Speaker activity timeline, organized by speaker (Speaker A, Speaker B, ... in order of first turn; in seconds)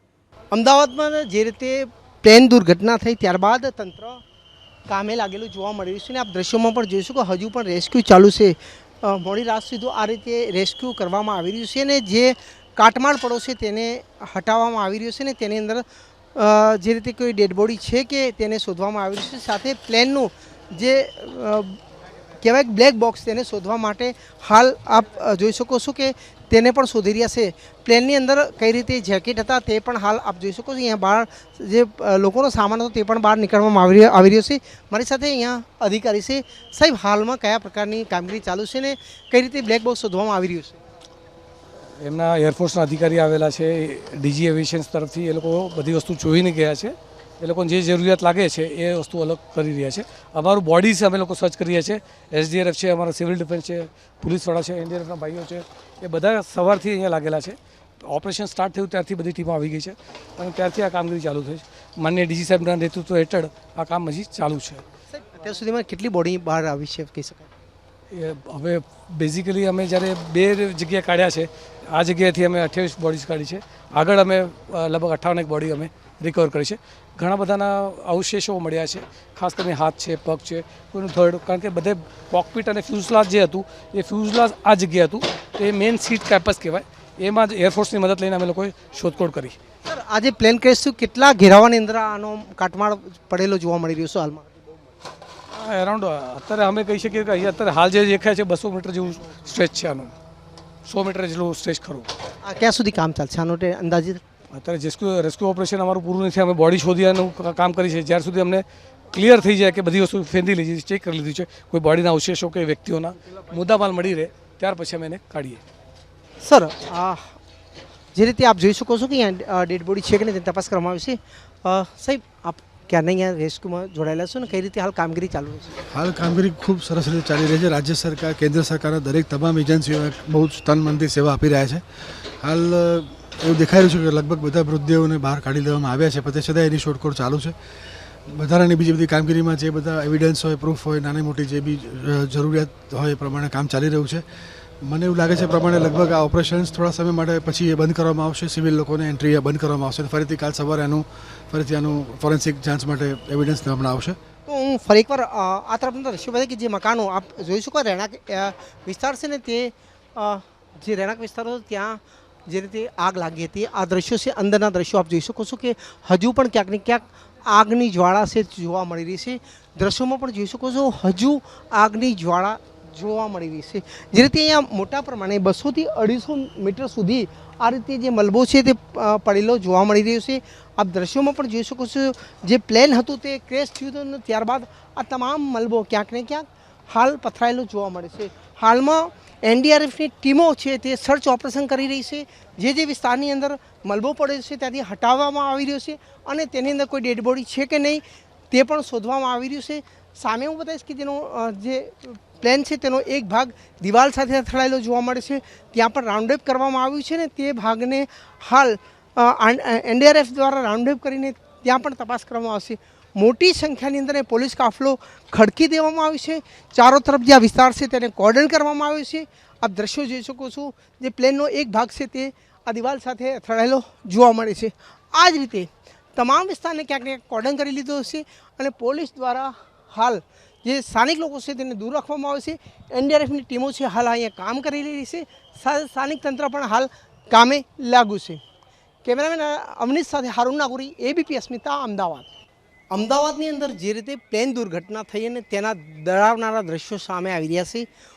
Speaker A: 0.5-4.2, 4.9-15.8, 16.3-21.8, 22.4-40.8, 65.1-67.5, 89.8-94.4, 102.4-104.2, 116.4-117.4, 118.1-125.7, 154.5-238.4, 239.0-242.3, 242.9-247.9
Speaker B: 42.0-64.8, 68.1-89.6, 95.5-100.1, 100.8-102.1, 104.5-115.6
Speaker C: 125.9-131.8, 132.4-137.5, 138.3-144.2, 144.8-154.2